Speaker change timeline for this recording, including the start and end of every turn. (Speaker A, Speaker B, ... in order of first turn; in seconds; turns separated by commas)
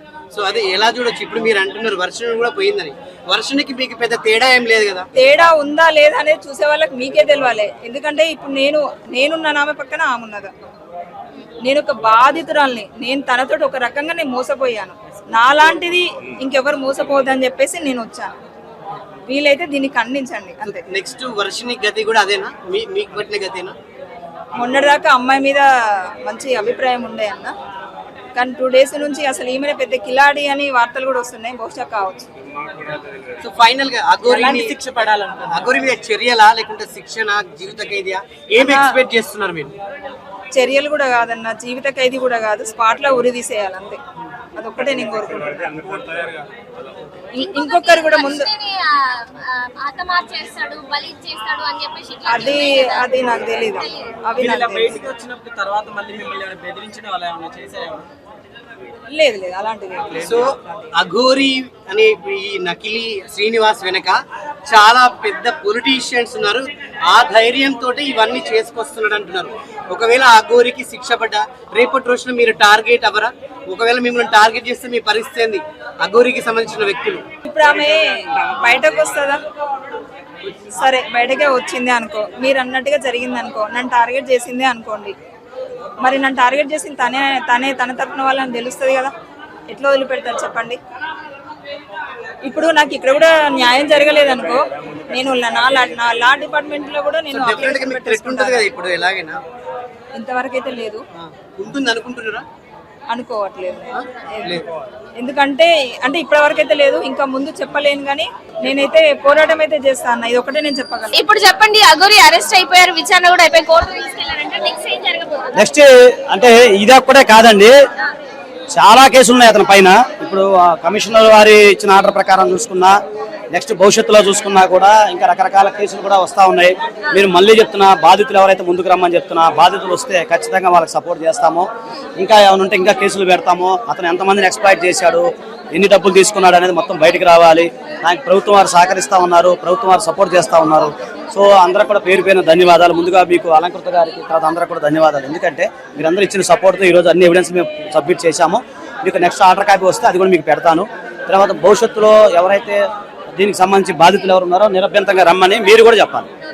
Speaker A: 0.3-5.1, Speaker B: 5.2-10.5, Speaker B: 11.6-18.4, Speaker B: 19.3-20.8, Speaker A: 20.8-23.8, Speaker B: 24.6-25.7, Speaker B: 26.2-27.5, Speaker B: 28.4-32.3, Speaker A: 33.4-34.7, Speaker C: 34.2-35.9, Speaker A: 35.5-39.7, Speaker B: 38.6-38.9, Speaker B: 40.5-44.0, Speaker B: 44.6-45.7, Speaker B: 47.4-48.5, Speaker D: 47.4-54.0, Speaker B: 52.3-55.0, Speaker C: 54.4-58.1, Speaker B: 59.1-60.9, Speaker A: 60.3-64.2, Speaker A: 64.7-77.2, Speaker B: 77.5-79.4, Speaker B: 80.7-85.2, Speaker B: 86.0-89.1, Speaker B: 89.7-90.8, Speaker B: 92.5-98.7, Speaker A: 97.3-99.4, Speaker B: 100.2-101.0, Speaker A: 101.2-102.4, Speaker B: 103.1-104.5, Speaker A: 104.0-104.7, Speaker B: 105.2-111.2, Speaker D: 111.1-115.5, Speaker E: 115.6-117.7, Speaker E: 118.7-123.0, Speaker E: 123.5-131.7, Speaker E: 132.2-152.8, Speaker E: 153.4-156.3